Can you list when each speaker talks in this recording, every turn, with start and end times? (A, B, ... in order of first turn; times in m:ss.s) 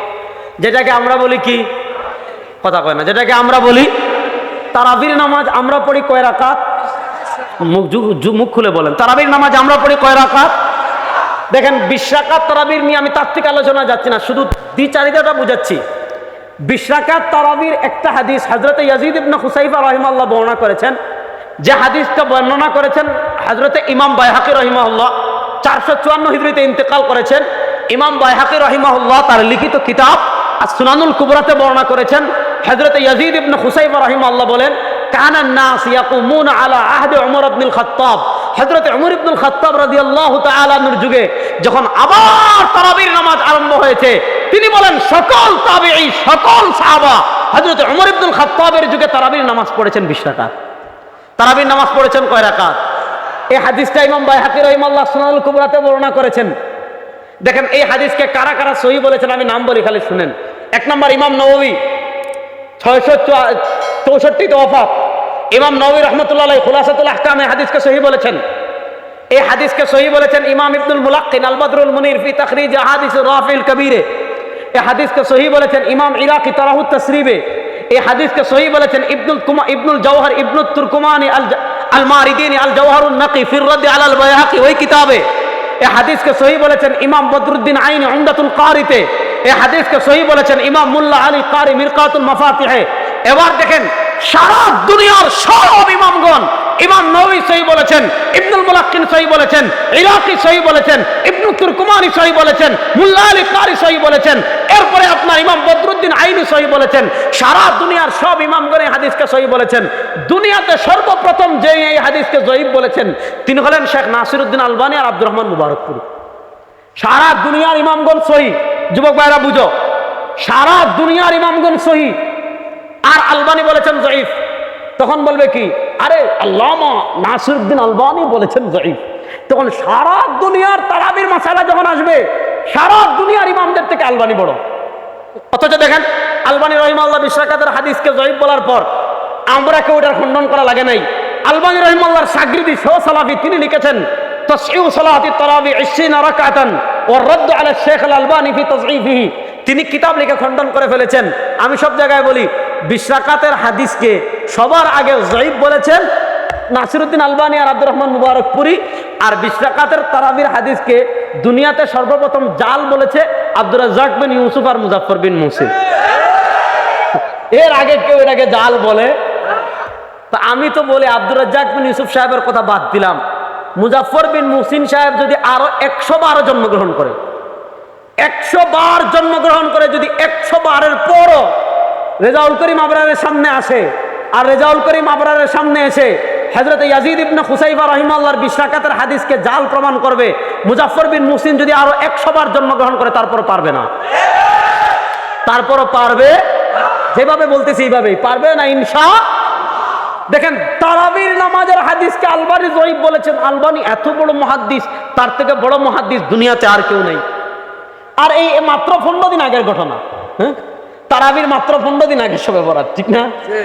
0:00.6-0:01.6 A
0:02.6-0:03.9 A
0:04.7-0:06.6 A
0:07.6-0:10.5 A
0:11.5-0:15.8 A
0:16.6-0:21.0 A
0:21.6-0:50.5 A
0:51.4-0:52.8 A
0:53.5-0:56.5 A
0:57.4-1:01.8 A
1:02.8-1:04.9 A
1:05.5-1:08.4 A
1:09.3-1:14.0 A
1:14.7-1:25.2 A
1:25.8-1:56.0 A
1:57.0-1:59.7 A
2:00.4-2:02.2 A
2:03.1-2:04.3 A
2:05.0-2:14.6 A
2:15.5-2:18.9 A
2:19.5-2:36.0 A
2:36.7-2:45.7 A
2:47.5-2:49.1 A
2:50.3-2:53.2 A
2:53.8-2:57.2 A
2:58.2-3:01.5 A
3:02.2-3:13.9 A
3:15.4-3:16.4 A
3:17.1-3:19.2 A
3:20.3-3:27.2 A
3:28.2-3:33.3 A